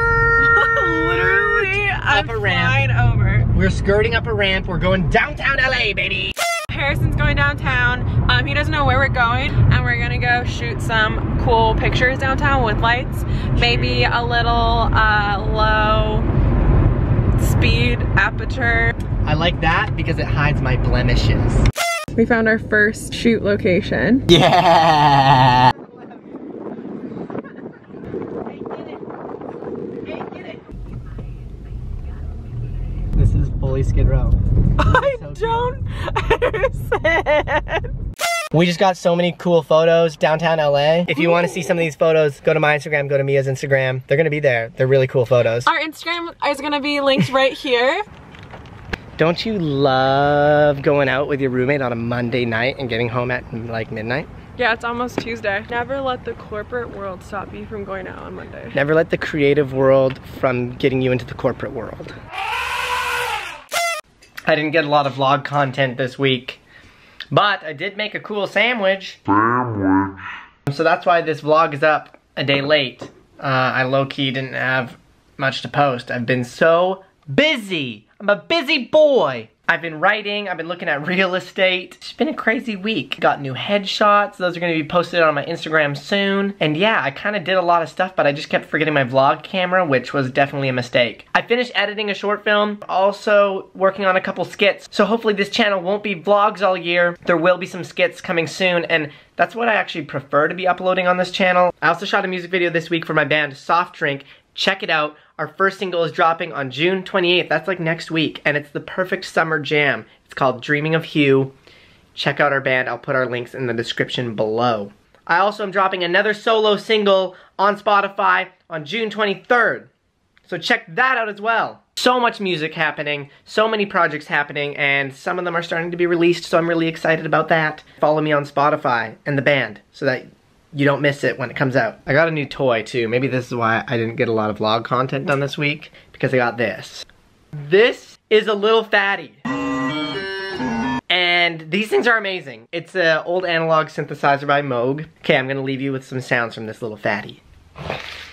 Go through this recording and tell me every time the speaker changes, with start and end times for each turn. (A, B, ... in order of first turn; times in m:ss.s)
0:00.4-0:03.5 A
0:02.1-0:02.8 B
0:03.5-0:06.3 B
0:06.7-0:16.3 A
0:13.6-0:14.1 B
0:17.4-0:19.0 A
0:19.2-0:21.6 B
0:22.2-0:24.4 A
0:24.3-0:25.7 B
0:33.2-0:35.7 B
0:34.8-0:37.9 A
0:38.5-0:45.7 B
0:41.2-0:41.8 A
0:45.6-0:48.0 A
0:49.2-0:54.3 B
0:54.6-0:58.8 A
0:58.7-1:02.2 B
1:04.5-1:06.6 B
1:07.3-1:09.2 B
1:10.7-1:51.5 B
1:52.2-1:59.9 B
2:00.4-2:17.0 B
2:17.6-2:19.4 B
2:21.1-2:27.4 B